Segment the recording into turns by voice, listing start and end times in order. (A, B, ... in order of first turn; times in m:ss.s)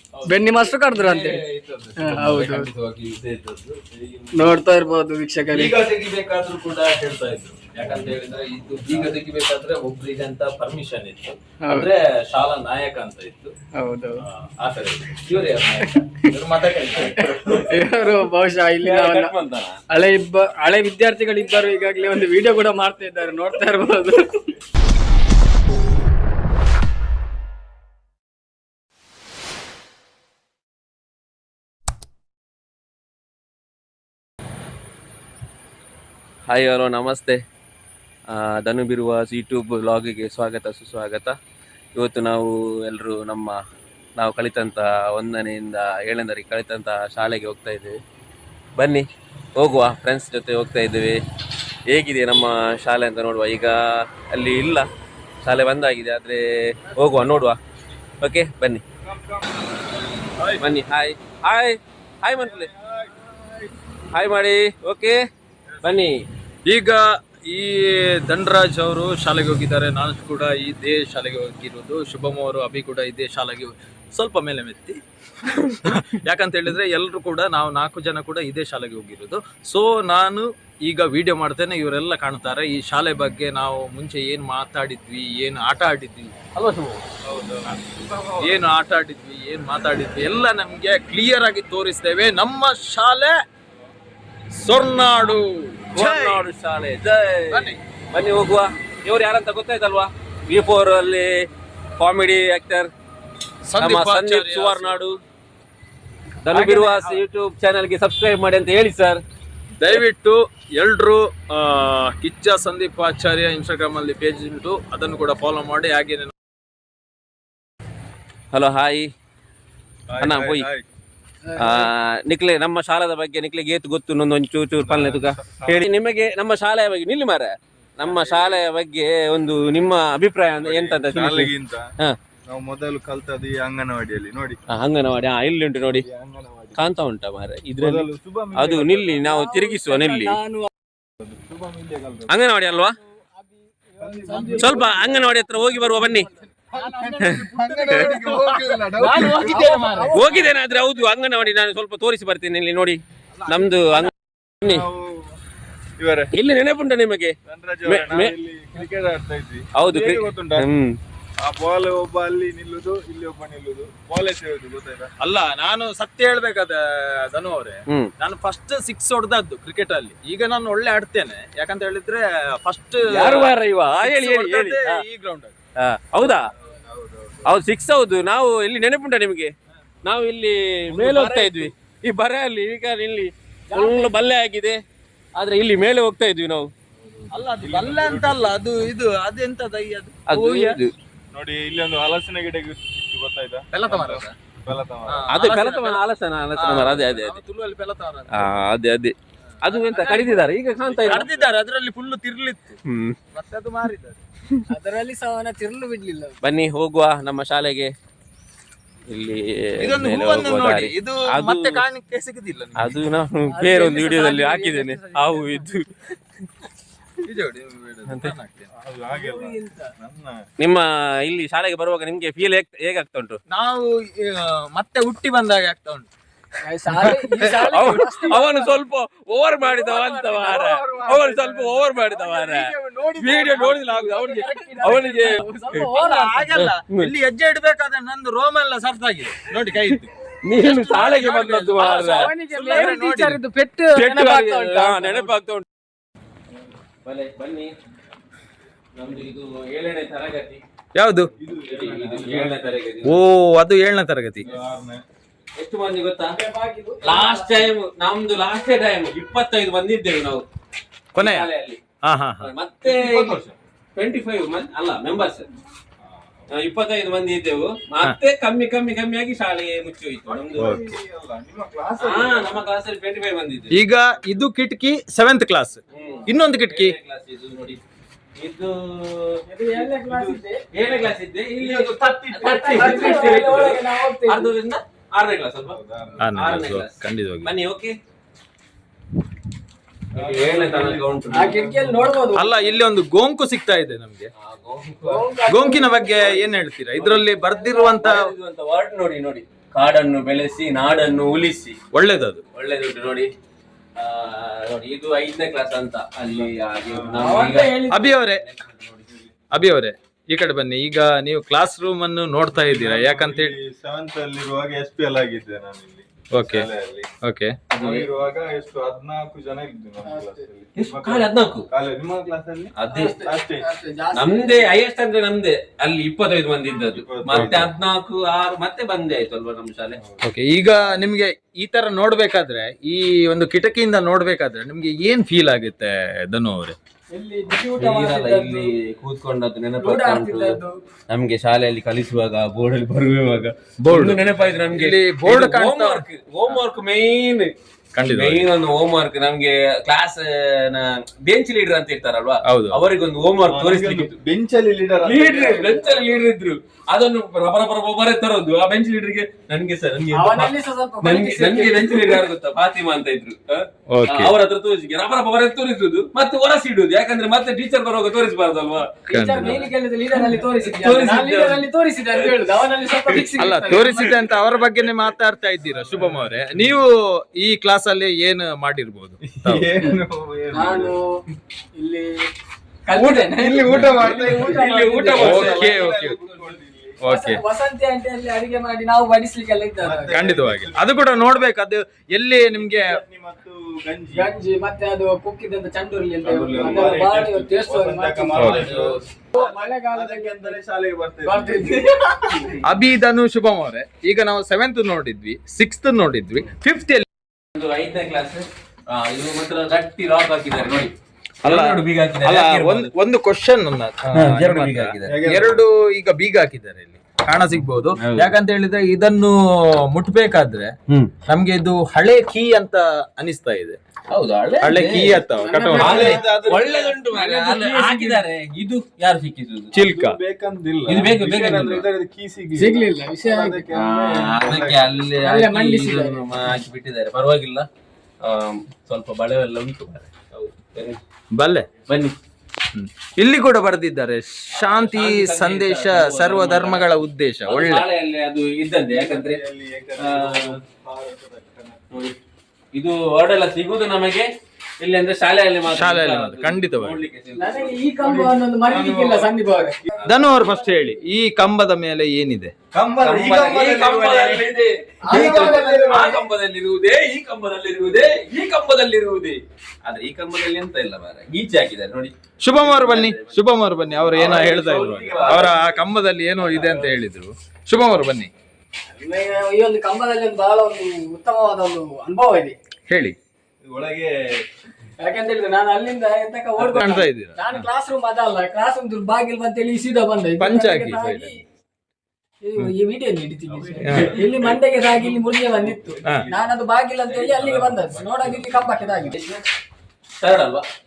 0:00.1-0:04.5 A
0:00.2-0:01.4 B
0:02.0-0:02.7 B
0:04.3-0:05.7 B
0:05.5-0:13.5 A
0:11.6-0:11.9 B
0:13.8-0:14.2 B
0:14.2-0:17.7 A
0:17.7-0:19.3 B
0:18.8-0:19.8 C
0:19.9-0:24.5 B
0:36.5-0:37.4 C
0:38.3-0:41.4 C
0:41.9-0:43.6 C
0:44.2-0:48.0 C
0:48.8-0:51.2 C
0:51.9-0:54.9 C
0:55.4-0:57.6 C
0:58.2-0:58.8 C
0:59.0-1:00.6 D
1:00.6-1:02.7 C
1:02.4-1:03.9 D
1:04.1-1:05.2 C
1:05.7-1:06.0 D
1:05.8-1:06.2 C
1:06.6-1:15.0 A
1:15.5-1:16.0 C
1:15.8-1:26.4 A
1:26.5-1:27.0 C
1:27.2-1:28.6 D
1:28.4-1:33.4 A
1:34.5-1:36.5 A
1:35.9-1:41.5 C
1:37.5-1:37.8 A
1:42.0-1:42.9 C
1:43.6-1:45.0 A
1:43.8-1:45.2 C
1:46.4-1:49.2 C
1:46.5-1:47.2 A
1:49.8-1:56.3 A
1:58.5-1:59.1 C
2:00.1-2:00.8 D
2:00.2-2:00.7 C
2:01.4-2:01.9 B
2:01.6-2:12.2 C
2:04.8-2:05.8 D
2:08.0-2:08.6 D
2:10.6-2:11.8 D
2:12.5-2:14.6 D
2:14.7-2:16.0 C
2:15.9-2:16.9 D
2:16.8-2:20.4 C
2:17.8-2:19.3 D
2:19.2-2:20.7 B
2:21.2-2:22.4 D
2:22.3-2:22.9 C
2:23.2-2:31.0 B
2:24.0-2:25.2 D
2:24.5-2:26.3 C
2:26.7-2:29.7 D
2:28.5-2:30.1 A
2:30.1-2:34.9 C
2:33.4-2:34.1 D
2:34.6-2:35.4 D
2:36.0-2:36.3 D
2:36.3-2:38.4 C
2:37.4-2:40.7 D
2:39.8-2:41.0 C
2:41.4-2:45.1 D
2:45.2-2:55.5 A
2:53.1-2:55.0 C
2:55.8-2:56.5 C
2:56.4-2:57.6 D
2:57.4-2:59.5 C
3:00.0-3:04.8 C
3:00.9-3:01.7 A
3:03.7-3:04.1 B
3:05.4-3:06.7 C
3:07.0-3:08.6 D
3:07.3-3:10.8 A
3:10.3-3:10.9 C
3:11.3-3:15.3 D
3:13.7-3:14.3 A
3:15.1-3:16.0 A
3:15.3-3:17.4 C
3:16.6-3:18.5 A
3:18.3-3:21.3 C
3:19.6-3:22.8 A
3:22.9-3:23.2 C
3:23.3-3:24.2 A
3:24.7-3:26.4 B
3:26.4-3:27.9 C
3:29.1-3:31.8 C
3:29.8-3:33.0 A
3:32.8-3:36.2 C
3:33.5-3:35.7 B
3:37.2-3:38.7 A
3:38.1-3:38.3 C
3:38.7-3:40.4 D
3:40.6-3:43.4 C
3:43.5-3:46.1 A
3:46.6-3:48.8 B
3:46.9-3:55.9 C
3:49.6-3:50.6 B
3:49.8-3:53.9 D
3:53.1-3:55.4 A
3:54.1-3:56.6 B
3:55.9-4:03.4 A
3:56.5-3:57.1 C
3:59.9-4:02.9 C
4:01.8-4:05.3 B
4:03.9-4:05.6 C
4:07.0-4:07.7 C
4:08.9-4:10.6 C
4:10.9-4:11.3 A
4:11.4-4:12.6 D
4:11.6-4:13.2 C
4:13.0-4:14.5 A
4:14.4-4:15.0 D
4:15.6-4:16.3 C
4:16.4-4:17.7 B
4:17.0-4:20.4 C
4:21.1-4:21.8 C
4:21.2-4:21.5 A
4:22.0-4:22.5 A
4:22.4-4:23.4 C
4:22.8-4:23.5 D
4:24.0-4:25.5 C
4:26.0-4:26.6 D
4:26.5-4:30.8 C
4:30.2-4:32.6 D
4:30.5-4:31.0 A
4:32.0-4:33.7 C
4:33.7-4:36.9 A
4:35.9-4:37.8 C
4:38.4-4:39.4 C
4:39.4-4:40.6 B
4:40.0-4:40.9 D
4:40.7-4:45.8 C
4:41.6-4:43.7 D
4:42.4-4:44.5 B
4:45.6-4:46.3 D
4:46.2-4:47.5 A
4:46.3-4:48.0 C
4:50.1-4:51.6 C
4:50.1-4:52.1 D
4:51.3-4:52.6 B
4:52.3-4:54.3 A
4:54.4-4:55.3 C
4:55.0-4:56.2 B
4:55.5-4:58.3 A
4:56.2-5:01.8 C
5:01.9-5:02.4 A
5:02.5-5:03.3 C
5:04.0-5:08.7 C
5:06.2-5:07.5 D
5:07.1-5:08.1 B
5:07.9-5:08.4 A
5:08.8-5:09.4 D
5:09.5-5:13.5 A
5:12.5-5:17.1 D
5:16.3-5:16.6 A
5:17.2-5:17.6 A
5:17.7-5:23.6 D
5:17.8-5:18.1 C
5:20.0-5:20.4 B
5:20.8-5:21.6 C
5:22.8-5:23.2 C
5:22.9-5:24.7 B
5:24.1-5:30.0 C
5:27.0-5:27.7 D
5:27.3-5:27.6 A
5:30.0-5:30.3 D
5:30.2-5:36.8 A
5:37.1-5:38.7 B
5:37.6-5:47.5 C
5:39.8-5:40.8 B
5:43.8-5:44.2 A
5:44.3-5:44.7 D
5:44.7-5:46.6 A
5:47.9-5:48.5 A
5:48.0-5:54.1 C
5:52.4-5:52.8 A
5:53.4-5:56.2 D
5:55.0-6:13.2 C
6:00.1-6:02.2 B
6:03.9-6:04.3 A
6:09.1-6:14.2 B
6:09.1-6:09.6 A
6:13.4-6:19.7 A
6:15.7-6:16.8 D
6:19.2-6:20.9 D
6:20.5-6:21.0 B
6:21.8-6:22.1 B
6:22.8-6:25.5 B
6:23.0-6:27.0 D
6:23.9-6:26.6 C
6:25.2-6:26.2 A
6:27.0-6:27.4 A
6:27.1-6:30.2 B
6:29.8-6:31.4 D
6:30.1-6:33.0 A
6:32.4-6:34.3 D
6:34.1-6:38.7 B
6:36.2-6:41.8 D
6:36.5-6:37.0 C
6:38.4-6:38.6 A
6:38.5-6:39.0 C
6:39.3-6:40.6 B
6:41.2-6:42.6 B
6:42.6-6:47.0 A
6:47.5-6:52.9 C
6:51.4-7:00.7 A
6:54.1-6:55.2 C
6:55.0-6:55.6 D
6:58.0-6:58.3 C
7:01.2-7:03.8 A
7:04.1-7:05.2 C
7:04.6-7:06.1 A
7:05.4-7:06.2 B
7:05.7-7:07.2 D
7:05.8-7:09.7 C
7:07.2-7:08.2 B
7:09.7-7:10.2 A
7:09.8-7:15.1 D
7:10.8-7:11.9 C
7:12.6-7:13.6 B
7:13.7-7:17.7 C
7:15.2-7:16.2 B
7:18.2-7:21.0 C
7:21.3-7:21.7 A
7:21.9-7:22.1 C
7:22.7-7:27.8 A
7:24.5-7:27.0 C
7:27.5-7:29.4 C
7:28.9-7:31.8 D
7:30.0-7:30.6 C
7:31.9-7:32.2 C
7:32.7-7:34.3 C
7:34.8-7:37.9 C
7:35.6-7:37.0 A
7:37.4-7:41.0 B
7:38.0-7:40.1 D
7:40.0-7:42.5 A
7:42.7-7:44.4 D
7:43.0-7:53.4 C
7:45.0-7:46.2 B
7:45.1-7:46.1 D
7:52.4-7:58.3 A
7:53.9-7:55.6 C
7:54.1-7:55.8 D
7:56.4-7:56.9 D
7:58.9-8:02.6 B
8:02.9-8:03.2 A
8:03.6-8:04.1 D
8:05.0-8:11.4 B
8:06.6-8:07.7 A
8:10.4-8:11.3 A
8:12.4-8:19.2 B
8:13.5-8:16.5 C
8:13.8-8:14.2 A
8:17.0-8:19.4 C
8:20.2-8:20.6 C